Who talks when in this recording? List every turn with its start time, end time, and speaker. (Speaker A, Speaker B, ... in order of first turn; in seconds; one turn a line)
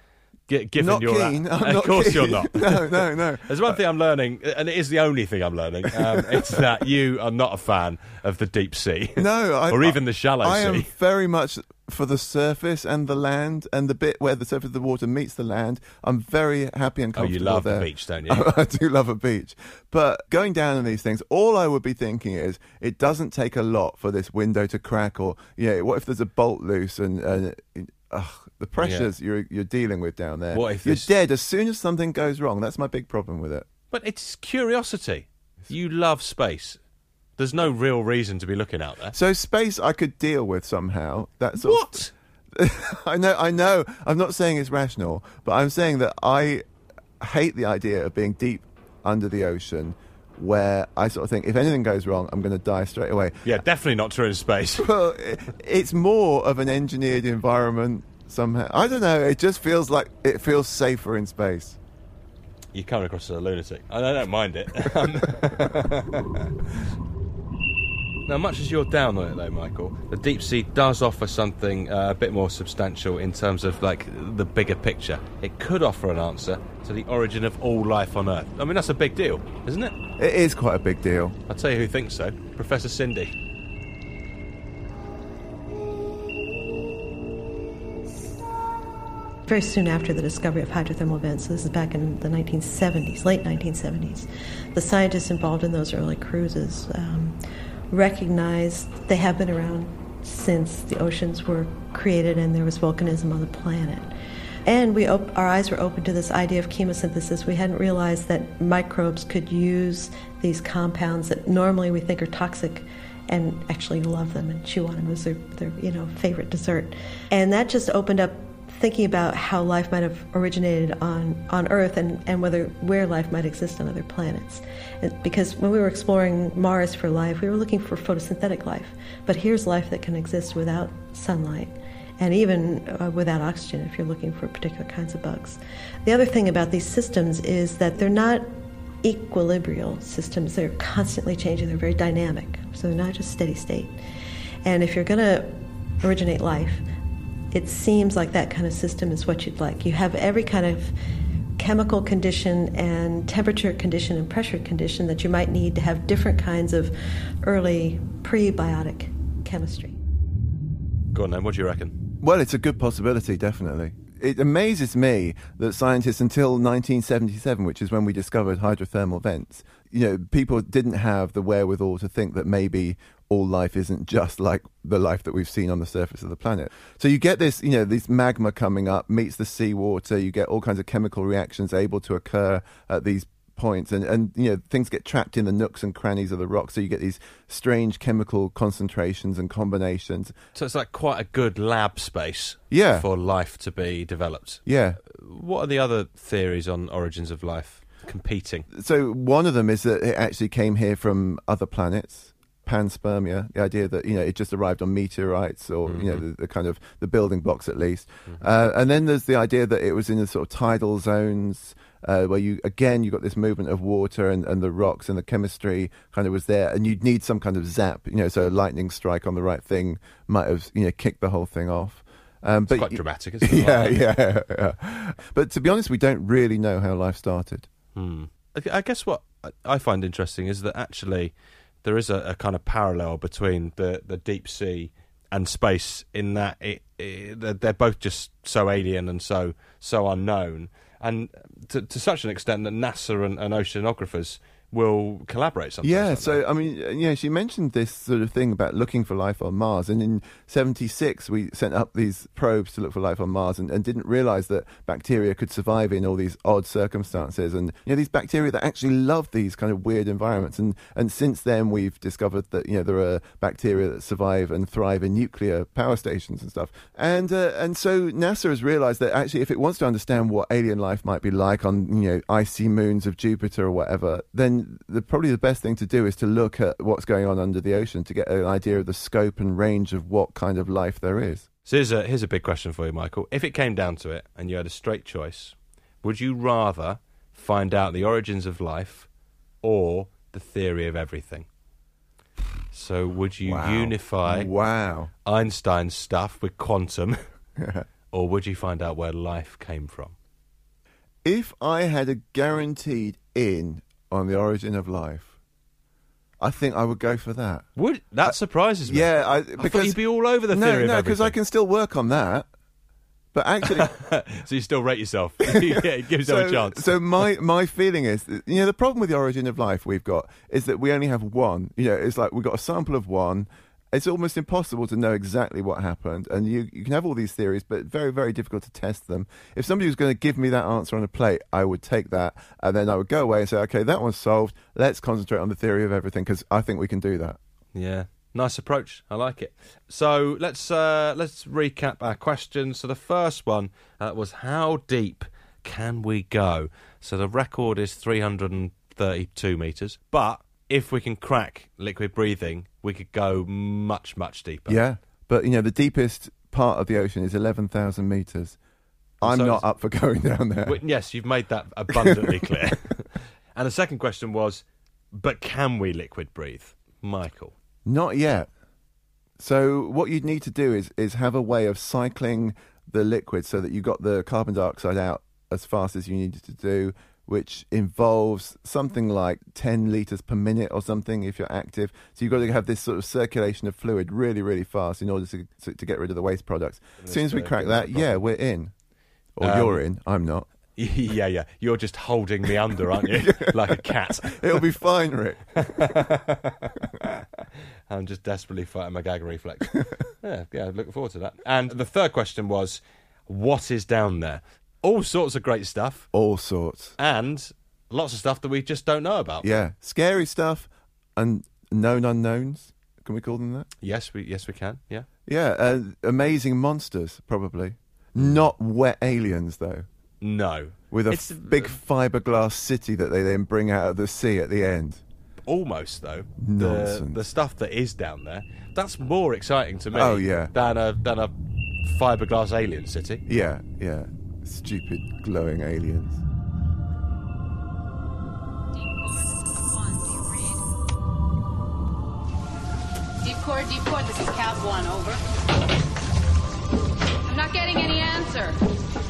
Speaker A: 0.5-10.9
Speaker B: 0.8-3.8
Speaker B: 6.0-6.7
Speaker B: 9.2-33.7
Speaker A: 17.1-18.5
Speaker A: 28.8-29.1
Speaker A: 30.5-31.1
Speaker A: 33.9-36.8
Speaker A: 37.4-39.1
Speaker B: 39.1-46.6
Speaker A: 41.6-42.1
Speaker B: 47.2-53.5
Speaker A: 53.4-54.9
Speaker B: 54.8-61.8
Speaker A: 62.7-66.5
Speaker A: 68.2-79.9
Speaker B: 80.2-81.4
Speaker A: 81.5-83.3
Speaker C: 89.5-97.4
Speaker C: 97.9-104.1
Speaker C: 104.7-138.5
Speaker C: 139.0-144.0
Speaker C: 144.6-146.8
Speaker C: 147.5-150.9
Speaker C: 151.6-160.0
Speaker A: 161.1-161.9
Speaker B: 162.2-190.3
Speaker A: 190.5-198.7
Speaker B: 192.7-193.1
Speaker B: 194.7-195.0
Speaker B: 198.7-227.7
Speaker A: 205.9-206.2
Speaker A: 222.7-224.1
Speaker A: 227.9-246.4
Speaker B: 245.8-281.4
Speaker A: 281.6-289.1
Speaker A: 289.6-291.5
Speaker A: 292.7-294.5
Speaker B: 293.4-295.1
Speaker A: 295.2-297.2
Speaker B: 297.6-297.9
Speaker A: 298.1-300.1
Speaker B: 301.2-305.3
Speaker B: 306.4-307.6
Speaker A: 307.8-311.4
Speaker B: 308.9-310.0
Speaker B: 310.5-312.5
Speaker B: 313.3-313.9
Speaker A: 313.6-317.0
Speaker B: 315.5-337.4
Speaker A: 337.7-354.8
Speaker B: 354.7-358.6
Speaker B: 359.2-360.8
Speaker A: 359.2-359.6
Speaker A: 360.6-367.5
Speaker B: 361.9-362.6
Speaker B: 367.9-368.5
Speaker B: 369.4-388.7
Speaker A: 387.0-388.2
Speaker B: 389.4-390.5
Speaker A: 389.4-389.8
Speaker A: 390.8-394.6
Speaker B: 393.0-393.7
Speaker B: 394.2-395.6
Speaker A: 395.6-397.1
Speaker A: 397.9-406.1
Speaker B: 406.1-406.9
Speaker A: 407.0-409.5
Speaker B: 409.4-413.7
Speaker A: 413.8-415.1
Speaker B: 415.3-419.9
Speaker A: 418.2-418.5
Speaker A: 420.2-421.8
Speaker B: 420.9-425.0
Speaker A: 425.4-431.3
Speaker B: 426.4-427.2
Speaker B: 429.9-430.5
Speaker A: 431.8-433.2
Speaker B: 433.3-436.2
Speaker D: 443.2-445.2
Speaker D: 447.3-448.6